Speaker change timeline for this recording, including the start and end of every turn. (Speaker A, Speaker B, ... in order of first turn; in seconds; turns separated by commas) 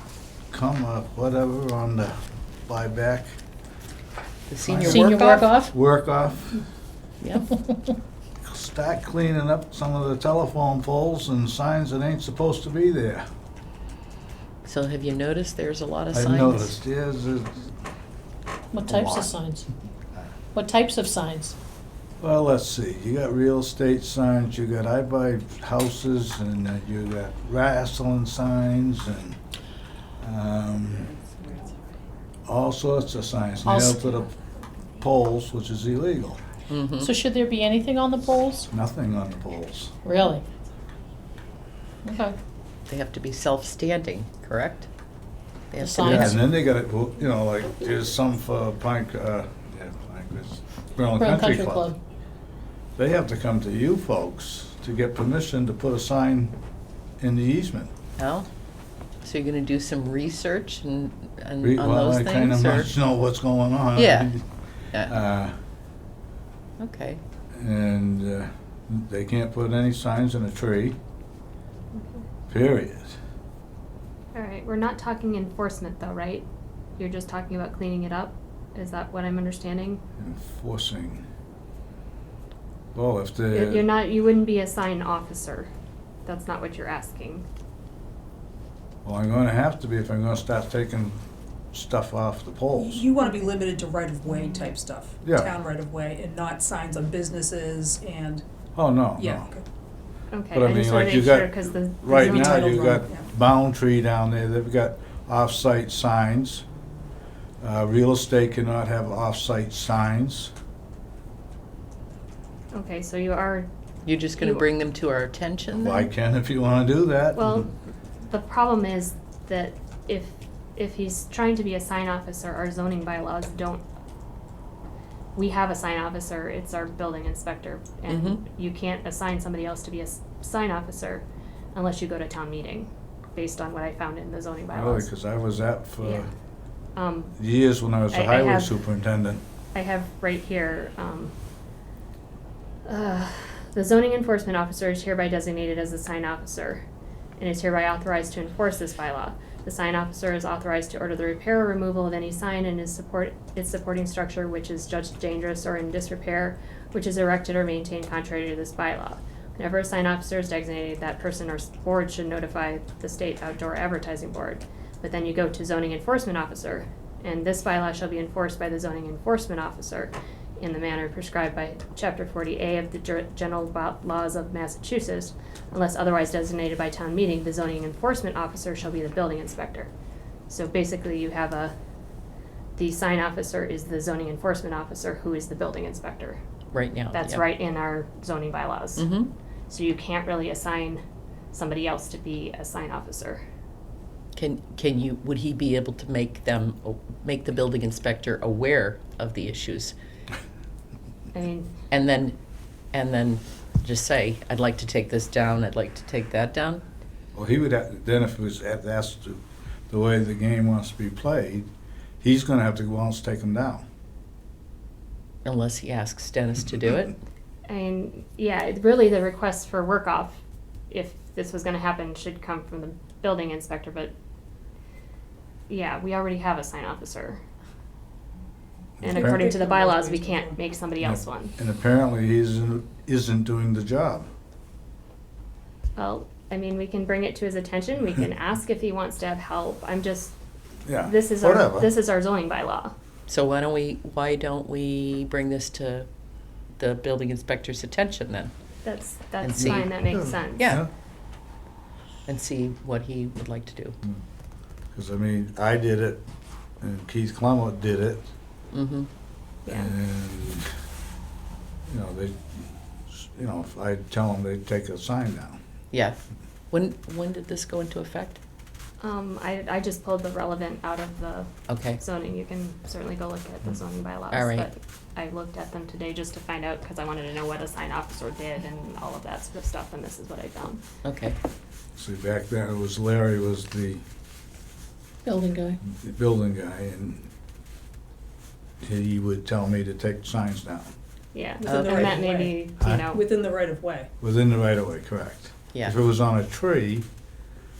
Speaker A: 0.5-3.3, Speaker B: 4.5-5.1, Speaker A: 4.7-6.6, Speaker C: 4.9-5.7, Speaker B: 7.2-7.5, Speaker A: 8.4-13.3, Speaker B: 14.7-16.8, Speaker A: 16.1-17.7, Speaker C: 18.7-19.7, Speaker A: 18.9-19.4, Speaker C: 20.5-21.6, Speaker A: 22.2-29.4, Speaker A: 30.2-31.1, Speaker A: 32.5-34.3, Speaker C: 33.6-34.2, Speaker A: 35.0-36.4, Speaker B: 36.7-37.1, Speaker C: 37.0-38.7, Speaker A: 38.7-39.9, Speaker C: 40.0-40.5, Speaker C: 42.0-42.4, Speaker B: 42.9-44.9, Speaker B: 45.7-46.4, Speaker C: 45.8-46.5, Speaker A: 46.0-51.9, Speaker C: 51.1-52.0, Speaker A: 53.0-56.6, Speaker A: 57.2-57.9, Speaker B: 58.2-58.5, Speaker B: 59.2-62.9, Speaker A: 61.6-64.5, Speaker B: 64.0-64.3, Speaker B: 64.9-65.2, Speaker A: 65.0-65.6, Speaker B: 66.8-67.2, Speaker A: 67.5-71.0, Speaker D: 71.9-72.2, Speaker A: 72.5-73.2, Speaker D: 74.3-80.0, Speaker A: 80.2-81.2, Speaker A: 82.9-83.9, Speaker D: 83.5-85.7, Speaker D: 86.2-87.5, Speaker A: 89.0-91.2, Speaker A: 91.7-93.1, Speaker E: 92.8-98.5, Speaker D: 93.2-93.5, Speaker A: 95.2-95.5, Speaker A: 98.8-99.5, Speaker E: 99.2-99.7, Speaker D: 100.3-102.8, Speaker A: 100.5-106.6, Speaker E: 102.1-103.3, Speaker A: 107.6-110.5, Speaker D: 112.7-113.7, Speaker B: 114.1-116.1, Speaker D: 114.4-114.7, Speaker A: 115.8-117.7, Speaker D: 117.3-117.7, Speaker D: 118.3-123.8, Speaker D: 125.3-135.1, Speaker B: 128.1-128.4, Speaker A: 134.7-136.3, Speaker D: 137.0-137.3, Speaker A: 137.4-139.4, Speaker D: 138.1-138.8, Speaker D: 139.7-141.3, Speaker D: 142.9-146.8, Speaker D: 147.4-179.9, Speaker D: 180.5-181.7, Speaker D: 182.8-186.4, Speaker B: 186.7-187.5, Speaker D: 187.1-189.1, Speaker B: 189.0-189.3, Speaker D: 189.7-191.0, Speaker D: 191.5-193.4, Speaker B: 194.4-199.9, Speaker D: 201.3-201.7, Speaker B: 201.9-202.4, Speaker B: 202.9-206.8, Speaker A: 207.3-211.7, Speaker A: 212.2-213.8, Speaker B: 215.4-217.2, Speaker D: 217.7-224.1, Speaker D: 225.7-227.4, Speaker A: 229.0-229.6, Speaker D: 229.0-231.6, Speaker E: 229.0-230.6, Speaker A: 231.0-234.3, Speaker D: 236.0-240.3, Speaker A: 240.8-241.9, Speaker D: 241.0-242.9, Speaker B: 243.3-246.1, Speaker B: 246.8-248.5, Speaker D: 248.8-250.8, Speaker B: 249.4-250.0, Speaker A: 249.6-250.9, Speaker B: 250.6-250.8, Speaker B: 252.3-254.0, Speaker A: 254.9-256.2, Speaker A: 256.8-258.3, Speaker B: 258.7-259.1, Speaker D: 259.7-259.9, Speaker A: 259.7-260.7, Speaker A: 261.9-265.6, Speaker B: 265.9-266.2, Speaker B: 266.7-268.4, Speaker D: 269.0-280.8, Speaker B: 271.7-272.0, Speaker B: 274.3-274.7, Speaker B: 281.0-281.4, Speaker A: 282.0-284.0, Speaker C: 285.2-285.8, Speaker A: 285.8-287.3, Speaker A: 288.8-290.9, Speaker D: 291.3-293.2, Speaker E: 291.6-292.6, Speaker B: 291.6-292.2, Speaker A: 292.8-293.1, Speaker E: 293.1-294.1, Speaker A: 294.2-297.1